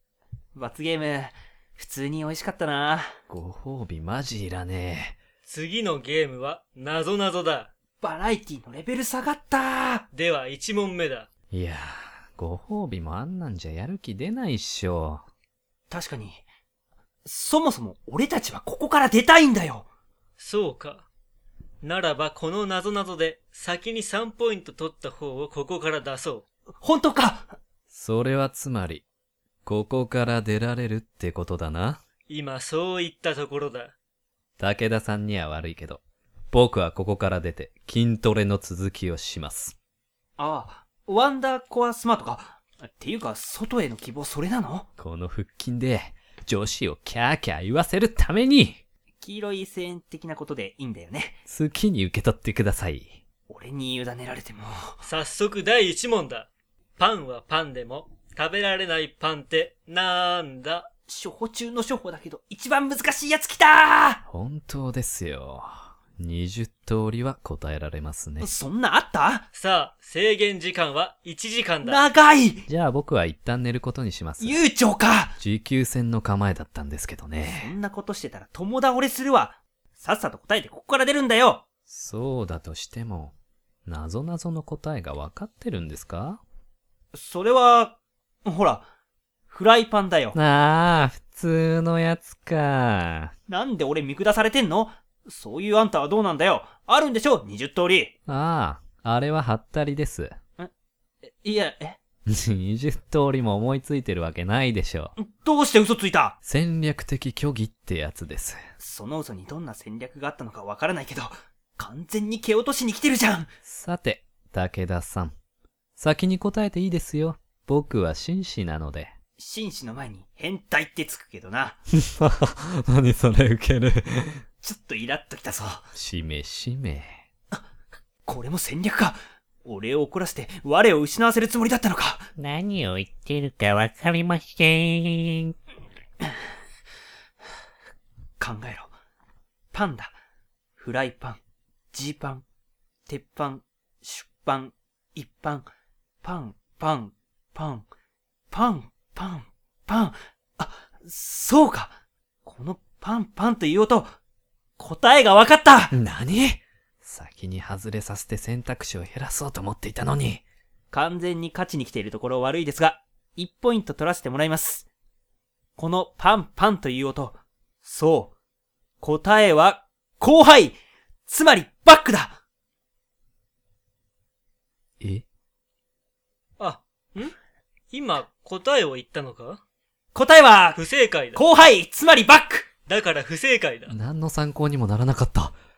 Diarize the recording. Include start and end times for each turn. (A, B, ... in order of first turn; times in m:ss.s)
0:00.5-0:03.0 A
0:03.3-0:05.2 B
0:05.4-0:07.7 C
0:08.0-0:10.0 A
0:10.1-0:11.3 C
0:11.5-0:15.2 B
0:15.9-0:16.4 A
0:17.2-0:19.9 A
0:20.4-0:21.0 C
0:21.8-0:26.4 C
0:26.8-0:27.5 A
0:27.9-0:29.0 B
0:29.6-0:32.0 B
0:32.3-0:33.9 C
0:34.6-0:39.8 B
0:40.4-0:44.9 A
0:45.0-0:48.8 B
0:49.2-0:51.4 A
0:51.5-0:53.2 B
0:53.5-0:55.0 A
0:55.0-1:00.9 C
1:01.1-1:04.2 A
1:04.3-1:08.5 B
1:08.4-1:09.5 A
1:09.5-1:12.0 C
1:11.8-1:12.6 A
1:12.7-1:14.6 B
1:14.4-1:15.4 A
1:15.4-1:17.7 B
1:17.4-1:21.6 A
1:21.9-1:23.3 B
1:23.8-1:26.4 B
1:27.1-1:28.8 A
1:29.5-1:30.4 A
1:30.3-1:33.3 B
1:33.5-1:38.1 A
1:38.3-1:40.3 B
1:41.2-1:42.0 A
1:42.3-1:45.1 B
1:45.2-1:46.3 A
1:46.4-1:48.6 B
1:48.8-1:53.5 A
1:53.6-1:55.3 B
1:56.0-1:59.1 B
1:59.4-2:01.8 A
2:02.0-2:04.4 B
2:04.6-2:05.9 A
2:05.9-2:07.2 B
2:08.3-2:12.3 A
2:12.4-2:15.5 D
2:18.4-2:18.9 A
2:19.7-2:20.1 A
2:20.8-2:21.4 A
2:21.9-2:22.4 A
2:23.1-2:25.7 A
2:26.2-2:27.9 A
2:28.5-2:34.0 A
2:34.8-2:35.9 A
2:35.9-2:40.4 B
2:40.9-2:44.9 A
2:45.8-2:48.3 A
2:49.0-2:52.4 A
2:55.0-2:55.2 B
2:56.6-2:57.3 C
2:57.9-2:59.6 C
3:00.1-3:00.8 A
3:00.8-3:01.4 C
3:01.3-3:02.7 A
3:02.9-3:03.9 C
3:03.9-3:05.5 B